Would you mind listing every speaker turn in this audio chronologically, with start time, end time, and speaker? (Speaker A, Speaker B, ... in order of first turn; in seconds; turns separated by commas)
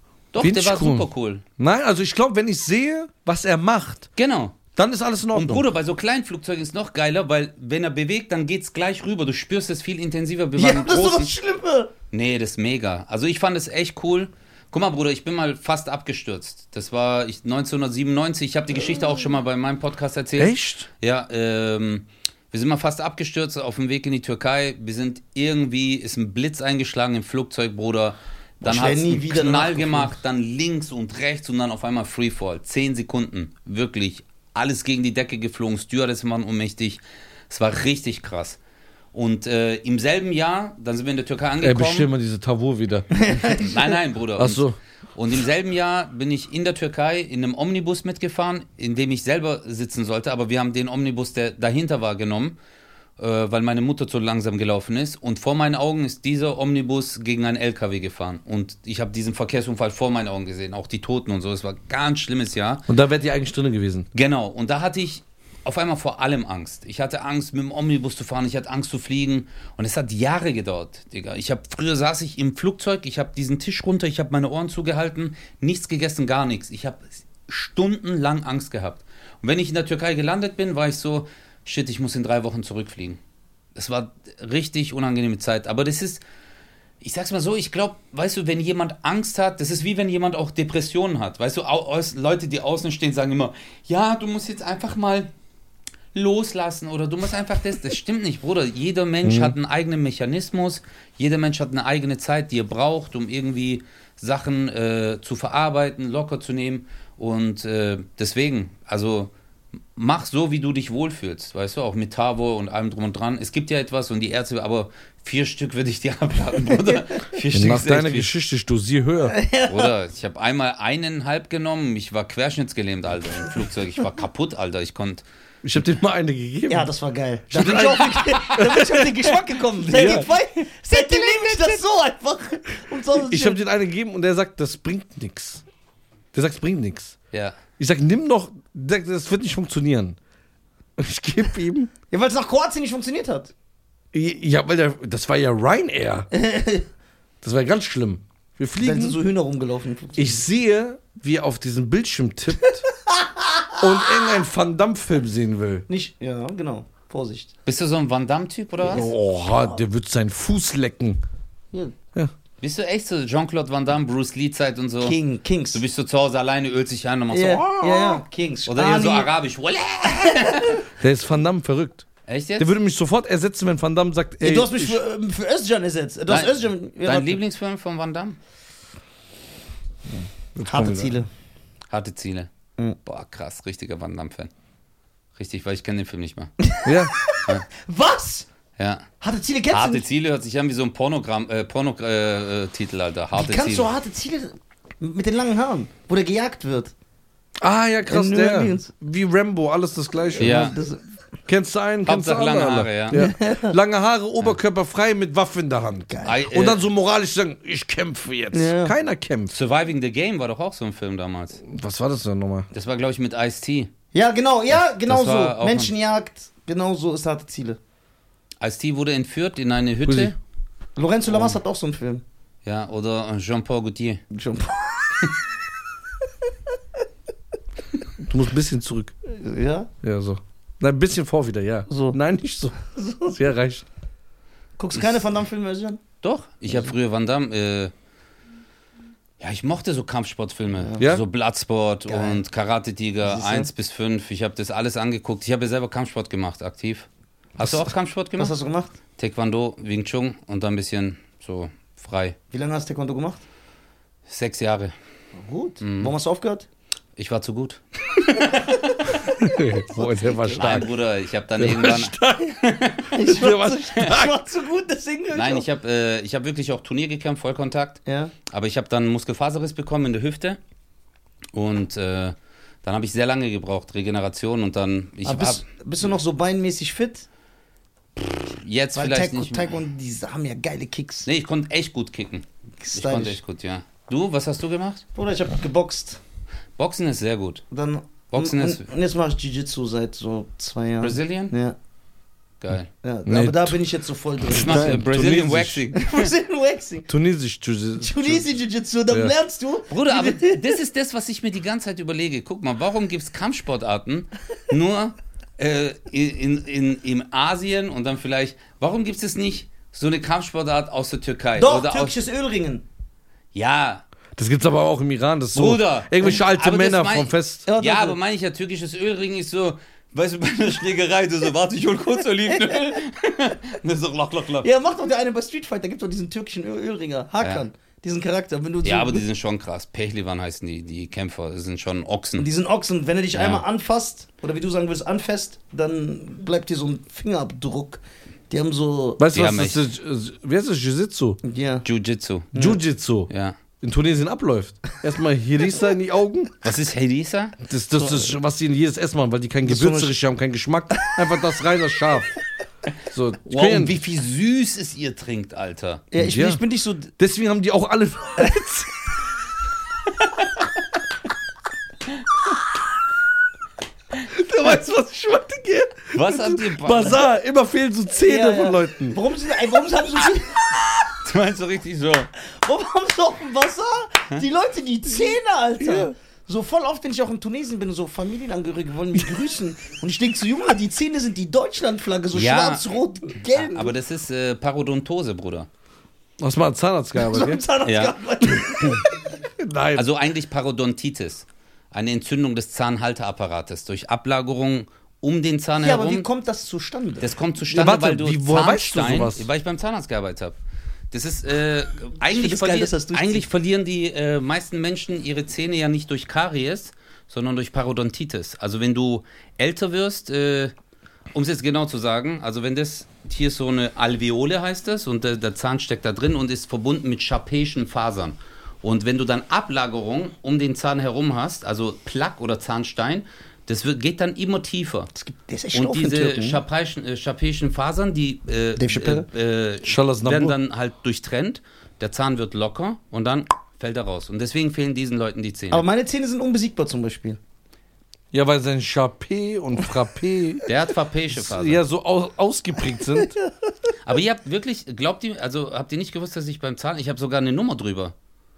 Speaker A: 0.3-1.4, Speaker B: 0.4-1.1, Speaker B: 1.6-4.1, Speaker A: 4.2-4.6, Speaker B: 4.8-5.6, Speaker A: 5.3-11.3, Speaker C: 10.5-11.9, Speaker A: 12.1-38.6, Speaker B: 20.4-20.9, Speaker C: 28.6-30.2, Speaker A: 39.1-42.1, Speaker B: 41.6-43.3, Speaker C: 43.1-43.9, Speaker A: 43.5-44.6, Speaker B: 44.4-44.8, Speaker A: 45.1-52.5, Speaker A: 53.2-62.9, Speaker B: 62.9-64.1, Speaker A: 64.1-83.2, Speaker A: 83.7-86.2, Speaker A: 87.0-95.3, Speaker A: 96.1-109.3, Speaker B: 99.2-99.5, Speaker A: 110.0-118.3, Speaker B: 117.5-119.4, Speaker C: 119.3-119.9, Speaker A: 119.6-125.2, Speaker B: 125.6-126.9, Speaker C: 126.7-133.6, Speaker B: 127.5-129.2, Speaker A: 128.1-128.6, Speaker B: 129.8-130.3, Speaker A: 130.9-131.6, Speaker B: 133.2-135.6, Speaker B: 136.3-137.2, Speaker B: 137.8-140.2, Speaker B: 141.0-141.9, Speaker C: 142.1-143.5, Speaker B: 144.1-146.3, Speaker C: 146.3-146.9, Speaker B: 147.4-149.2, Speaker C: 148.8-150.4, Speaker B: 150.2-152.9, Speaker C: 152.9-154.3, Speaker B: 153.8-155.8, Speaker C: 155.9-157.5, Speaker A: 157.7-159.1, Speaker B: 158.8-161.2, Speaker A: 162.6-165.2, Speaker C: 165.0-165.8, Speaker A: 165.7-170.8, Speaker C: 167.3-169.3, Speaker C: 170.1-170.8, Speaker B: 171.0-172.1, Speaker A: 172.3-172.7, Speaker B: 172.6-175.0, Speaker C: 174.4-177.4, Speaker A: 176.3-178.4, Speaker B: 180.5-181.2, Speaker C: 180.7-181.3, Speaker A: 181.9-182.5, Speaker A: 183.1-184.5, Speaker A: 185.3-186.5, Speaker C: 186.6-188.5, Speaker B: 186.8-187.1, Speaker A: 188.8-189.1, Speaker C: 189.2-190.0, Speaker A: 189.7-193.9, Speaker C: 193.3-196.9, Speaker B: 197.6-200.7, Speaker C: 198.1-198.9, Speaker C: 200.3-201.0, Speaker A: 200.4-200.8, Speaker B: 201.4-209.5, Speaker A: 202.0-203.2, Speaker C: 203.1-203.8, Speaker C: 206.1-206.4, Speaker A: 206.2-206.8, Speaker C: 208.5-208.9, Speaker A: 209.5-211.6, Speaker B: 211.6-212.7, Speaker A: 212.7-213.9, Speaker C: 214.1-217.8, Speaker A: 214.7-215.9, Speaker A: 218.6-220.3, Speaker B: 220.1-220.3, Speaker C: 220.9-222.2, Speaker A: 221.3-221.6, Speaker A: 222.6-224.2, Speaker C: 224.3-225.3, Speaker B: 228.2-229.1, Speaker C: 229.2-229.9, Speaker B: 230.0-233.8, Speaker C: 231.9-232.2, Speaker C: 232.9-233.3, Speaker C: 234.8-236.0, Speaker A: 236.2-237.9, Speaker A: 239.4-247.1, Speaker C: 242.1-242.4, Speaker C: 243.2-243.7, Speaker A: 247.6-248.5, Speaker C: 248.4-248.9, Speaker A: 249.2-252.3, Speaker C: 252.5-253.4, Speaker A: 254.3-254.9, Speaker C: 255.3-256.6, Speaker A: 255.8-256.1, Speaker A: 257.2-259.1, Speaker B: 259.2-260.9, Speaker C: 259.4-260.9, Speaker A: 260.5-263.2, Speaker B: 261.6-262.6, Speaker C: 263.1-265.7, Speaker B: 263.2-264.3, Speaker A: 265.3-270.6, Speaker C: 268.1-268.3, Speaker A: 271.5-275.6, Speaker C: 275.2-277.2, Speaker A: 278.2-279.8, Speaker C: 278.9-281.3, Speaker A: 281.2-285.0, Speaker C: 282.8-283.4, Speaker C: 285.1-286.2, Speaker A: 286.8-287.6, Speaker C: 287.7-291.8, Speaker A: 288.3-288.8, Speaker A: 291.0-291.5, Speaker A: 292.6-292.9, Speaker C: 293.0-295.0, Speaker B: 293.2-293.8, Speaker B: 294.5-295.8, Speaker A: 294.5-296.3, Speaker C: 295.9-297.1, Speaker B: 297.1-298.5, Speaker C: 298.0-300.8, Speaker A: 299.9-312.2, Speaker C: 311.6-312.8, Speaker A: 313.5-314.0, Speaker B: 314.4-317.6, Speaker A: 315.5-324.7, Speaker C: 317.6-318.2, Speaker C: 324.6-329.2, Speaker A: 328.8-332.5, Speaker C: 332.4-339.2, Speaker A: 333.3-333.6, Speaker B: 339.2-341.4, Speaker A: 339.3-339.8, Speaker C: 341.4-341.9, Speaker A: 341.8-342.5, Speaker C: 342.5-342.8, Speaker B: 342.6-343.3, Speaker A: 343.3-343.6, Speaker B: 343.8-346.6, Speaker A: 346.6-347.6, Speaker B: 347.6-352.3, Speaker C: 348.0-348.3, Speaker C: 349.6-350.1, Speaker B: 353.1-354.0, Speaker A: 353.4-356.0, Speaker C: 356.1-357.1, Speaker B: 356.2-356.6, Speaker B: 357.1-358.9, Speaker B: 364.3-369.2, Speaker A: 366.1-367.2, Speaker C: 368.2-370.8, Speaker A: 371.1-372.3, Speaker C: 372.4-383.9, Speaker B: 375.8-376.1, Speaker A: 382.3-382.8, Speaker A: 383.4-385.7, Speaker B: 386.4-387.6, Speaker C: 387.1-389.1, Speaker A: 387.8-389.0, Speaker B: 389.6-390.1, Speaker A: 389.9-396.2, Speaker C: 395.8-397.3, Speaker A: 397.2-400.6, Speaker B: 397.7-399.5, Speaker A: 401.1-410.7, Speaker C: 402.3-403.5, Speaker A: 411.3-425.1, Speaker C: 425.1-426.6, Speaker A: 425.7-435.8, Speaker C: 428.8-429.3, Speaker B: 429.9-430.5, Speaker C: 435.7-437.4, Speaker B: 438.3-440.6, Speaker A: 440.6-441.8, Speaker B: 441.3-443.3, Speaker C: 443.1-443.4, Speaker A: 444.0-448.1